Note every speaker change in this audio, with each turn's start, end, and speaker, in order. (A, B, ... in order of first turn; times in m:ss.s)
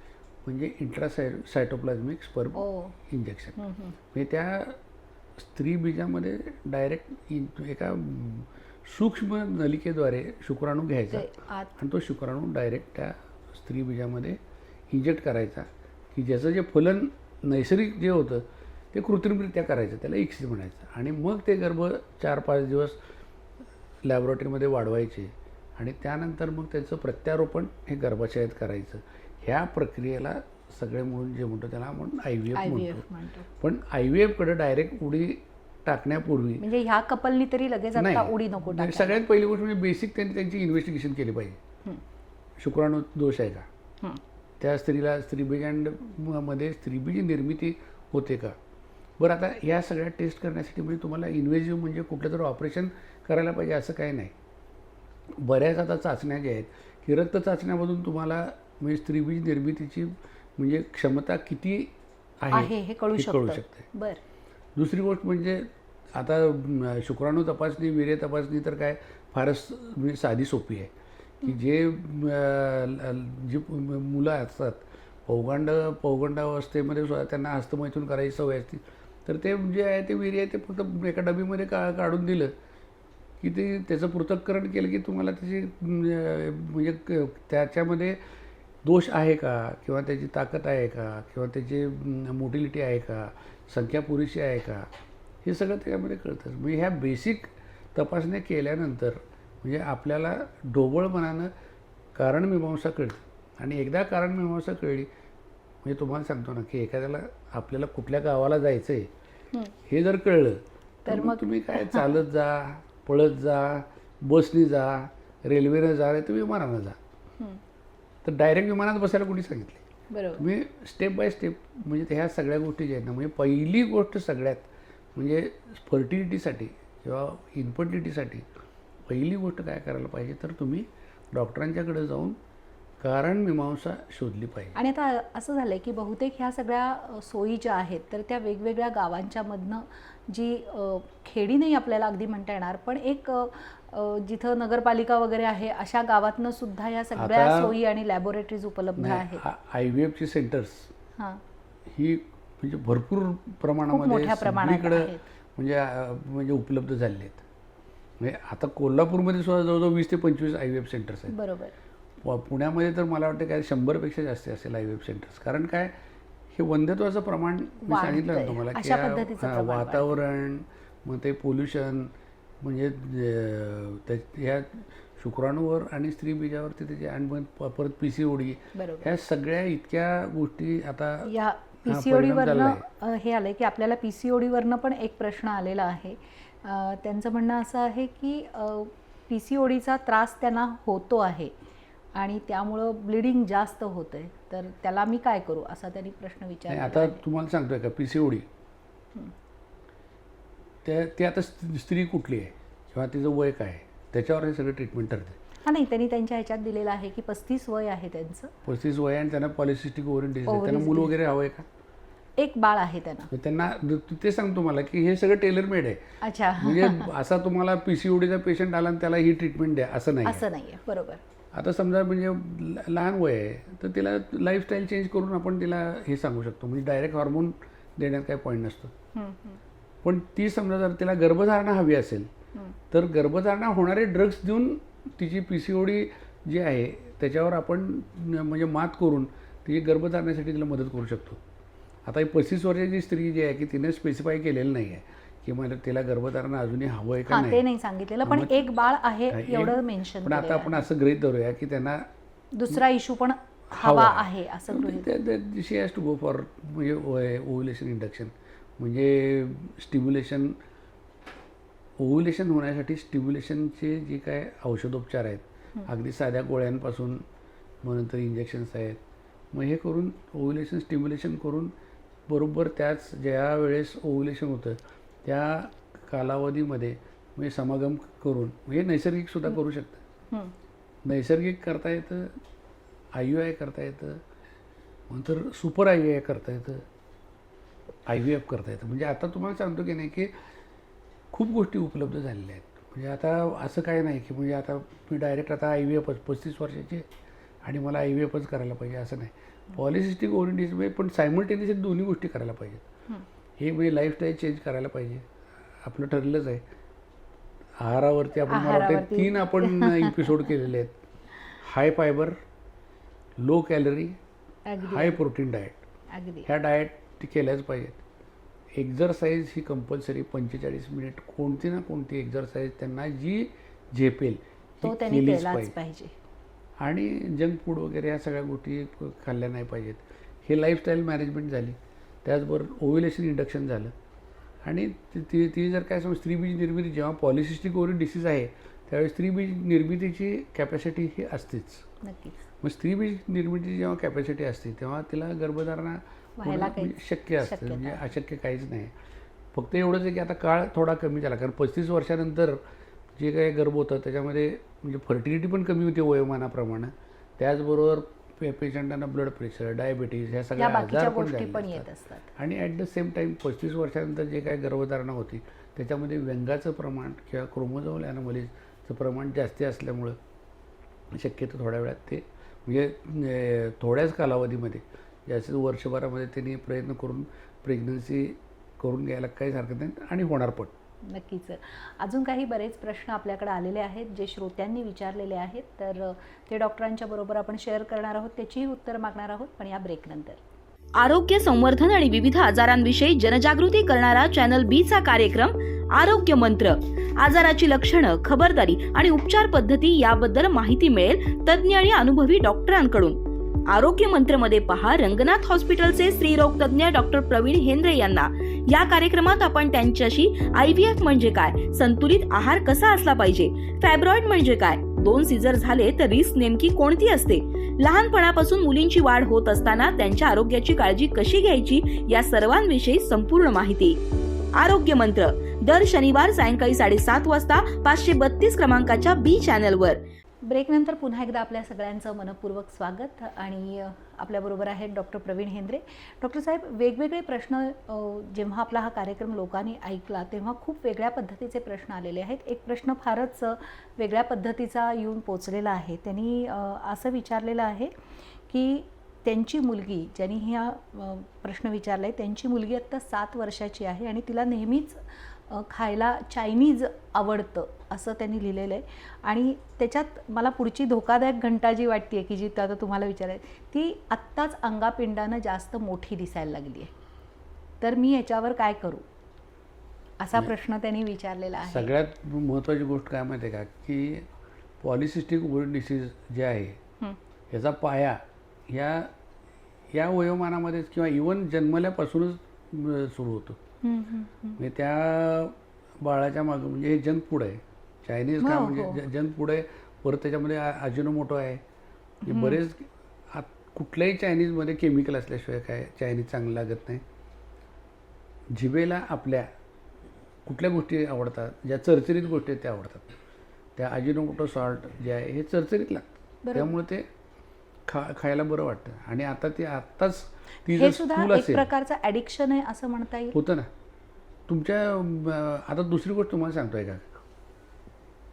0:00.4-0:03.6 A
0:02.6-0:03.0 B
0:03.6-0:04.0 B
0:04.1-0:04.8 A
0:05.4-0:14.4 A
0:11.1-0:11.8 B
0:14.9-0:23.0 A
0:24.0-0:33.0 A
0:32.5-0:33.5 B
0:33.6-0:36.6 A
0:36.6-0:39.2 B
0:38.0-0:41.6 A
0:42.6-0:43.7 A
0:44.6-0:48.6 A
0:49.2-0:54.3 A
0:55.3-1:03.9 A
1:02.5-1:04.2 B
1:04.8-1:10.9 A
1:11.4-1:22.5 A
1:23.4-1:28.2 A
1:28.8-1:34.9 A
1:35.4-1:41.5 A
1:42.2-1:45.1 A
1:45.8-1:49.1 A
1:49.9-1:57.0 A
1:51.1-1:52.1 B
1:58.2-1:59.8 A
2:00.1-2:00.5 B
2:00.4-2:08.5 A
2:09.1-2:12.4 A
2:13.0-2:14.8 A
2:14.8-2:29.4 B
2:27.2-2:27.8 A
2:29.0-2:30.9 A
2:31.9-2:37.4 A
2:33.9-2:35.2 B
2:38.2-2:41.4 A
2:41.3-2:41.7 B
2:42.2-2:46.0 A
2:46.5-3:01.3 A
2:47.8-2:50.2 B
2:58.8-2:59.1 B
3:01.2-3:11.6 B
3:01.8-3:02.8 A
3:12.2-3:17.2 B
3:16.7-3:18.5 A
3:20.8-3:25.4 A
3:25.6-3:28.5 B
3:28.6-3:31.7 A
3:30.5-3:31.2 B
3:32.4-3:33.3 B
3:33.3-3:36.0 A
3:36.2-3:37.1 B
3:36.6-3:40.5 A
3:40.2-3:41.2 B
3:41.5-3:48.9 A
3:49.2-3:49.6 B
3:50.0-3:52.3 A
3:52.9-4:01.4 A
4:02.0-4:07.6 A
4:07.3-4:10.8 B
4:08.2-4:08.7 A
4:09.3-4:12.1 A
4:12.5-4:15.1 B
4:13.7-4:20.6 A
4:22.0-4:27.2 A
4:27.8-4:29.0 A
4:29.5-4:31.7 A
4:32.3-4:40.0 A
4:41.0-4:42.4 A
4:43.1-4:44.2 A
4:45.1-4:46.9 A
4:48.1-4:50.3 A
4:51.3-4:57.1 A
4:57.6-5:02.9 A
5:03.6-5:05.3 A
5:05.8-5:06.6 A
5:07.8-5:11.0 A
5:08.5-5:10.5 B
5:11.6-5:12.4 A
5:13.4-5:14.2 A
5:14.7-5:15.2 B
5:14.8-5:15.8 A
5:16.1-5:16.5 B
5:16.5-5:18.0 A
5:18.7-5:25.7 A
5:24.8-5:26.1 B
5:26.8-5:33.9 A
5:34.6-5:41.9 A
5:42.0-5:42.4 B
5:42.6-5:48.9 A
5:46.4-5:48.0 B
5:49.5-5:52.6 A
5:53.2-6:10.2 A
6:00.6-6:02.3 B
6:11.1-6:20.7 A
6:21.1-6:30.4 B
6:31.0-6:43.2 C
6:43.7-7:04.0 C
7:04.5-7:10.0 C
7:10.4-7:27.9 B
7:28.5-7:46.9 B
7:47.8-7:49.0 B
7:50.2-7:51.9 B
7:51.6-7:54.3 A
7:54.8-7:56.8 A
7:57.5-7:59.1 A
7:59.9-8:03.6 A
8:03.8-8:04.6 B
8:04.6-8:11.6 A
8:08.4-8:09.0 B
8:12.2-8:12.6 B
8:12.3-8:17.0 A
8:18.5-8:19.5 A
8:20.4-8:23.1 A
8:23.8-8:27.1 A
8:26.4-8:26.7 B
8:27.9-8:31.7 A
8:30.7-8:33.4 B
8:33.3-8:33.7 A
8:34.5-8:37.2 A